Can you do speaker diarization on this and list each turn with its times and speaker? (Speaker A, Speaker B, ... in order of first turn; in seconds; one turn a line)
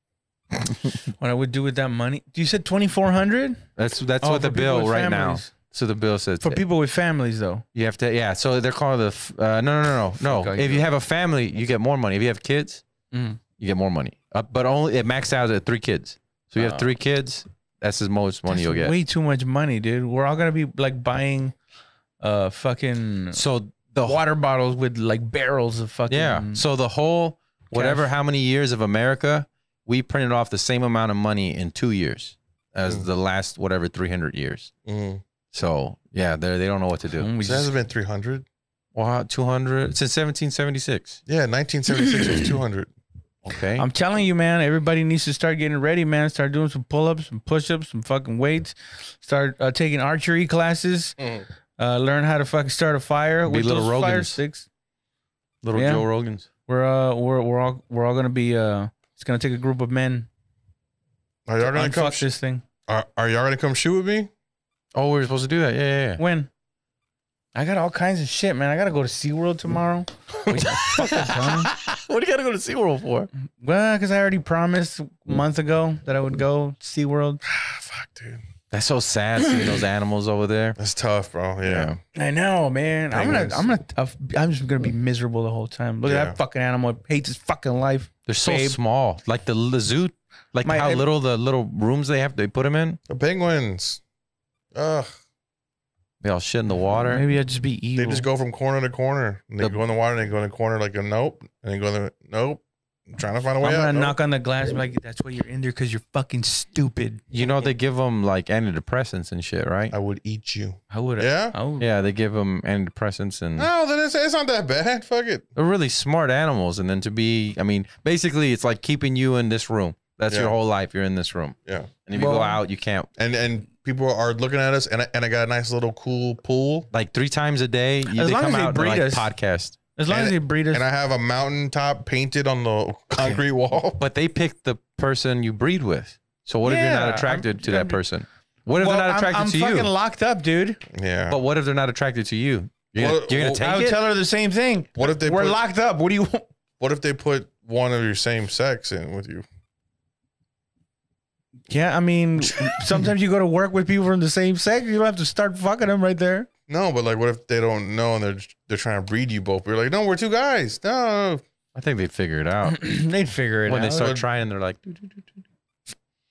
Speaker A: 1.1-3.6
Speaker B: 3.8-6.6
Speaker A: 4.2-5.5
Speaker A: 6.4-7.6
Speaker B: 7.7-12.8
Speaker A: 10.2-10.8
Speaker A: 13.1-13.4
Speaker B: 13.6-18.9
Speaker A: 18.5-21.6
Speaker A: 22.2-23.4
Speaker B: 23.3-24.2
Speaker A: 24.0-26.6
Speaker B: 26.1-34.7
Speaker A: 27.7-28.1
Speaker C: 34.9-35.2
Speaker B: 35.5-37.3
Speaker A: 37.1-37.7
Speaker C: 37.4-38.5
Speaker B: 38.9-41.2
Speaker C: 41.3-42.9
Speaker B: 43.4-43.9
Speaker A: 43.8-51.2
Speaker C: 51.2-51.4
Speaker A: 51.8-54.6
Speaker B: 53.5-54.4
Speaker B: 55.6-56.5
Speaker A: 55.7-56.0
Speaker A: 56.6-60.3
Speaker C: 61.5-62.3
Speaker A: 61.6-62.6
Speaker C: 62.9-64.3
Speaker B: 64.9-66.2
Speaker A: 66.2-66.5
Speaker A: 67.5-71.7
Speaker B: 70.5-73.3
Speaker A: 73.6-77.4
Speaker C: 77.4-78.4
Speaker B: 78.7-80.8
Speaker C: 80.8-81.9
Speaker B: 81.6-82.0
Speaker A: 82.1-88.8
Speaker C: 83.1-83.7
Speaker C: 86.0-86.4
Speaker B: 88.3-93.0
Speaker A: 90.6-91.0
Speaker C: 93.1-94.0
Speaker C: 94.7-95.1
Speaker B: 96.2-97.2
Speaker A: 97.0-98.3
Speaker C: 98.0-104.2
Speaker A: 103.6-107.2
Speaker B: 107.3-109.9
Speaker C: 109.9-111.5
Speaker A: 110.9-111.8
Speaker B: 111.8-113.7
Speaker C: 113.6-115.4
Speaker B: 115.5-123.1
Speaker C: 120.3-120.5
Speaker C: 121.7-121.9
Speaker A: 122.1-122.6
Speaker C: 123.2-126.9
Speaker B: 126.9-129.8
Speaker A: 128.1-129.3
Speaker A: 129.9-130.8
Speaker C: 130.1-134.0
Speaker B: 134.0-139.9
Speaker A: 136.6-138.0
Speaker A: 138.7-140.8
Speaker C: 140.9-141.4
Speaker B: 141.3-144.0
Speaker C: 143.0-143.6
Speaker A: 143.6-146.5
Speaker C: 144.9-145.6
Speaker C: 146.8-149.4
Speaker A: 151.7-156.5
Speaker C: 156.7-161.4
Speaker B: 161.7-162.8
Speaker A: 162.6-164.2
Speaker B: 163.7-165.3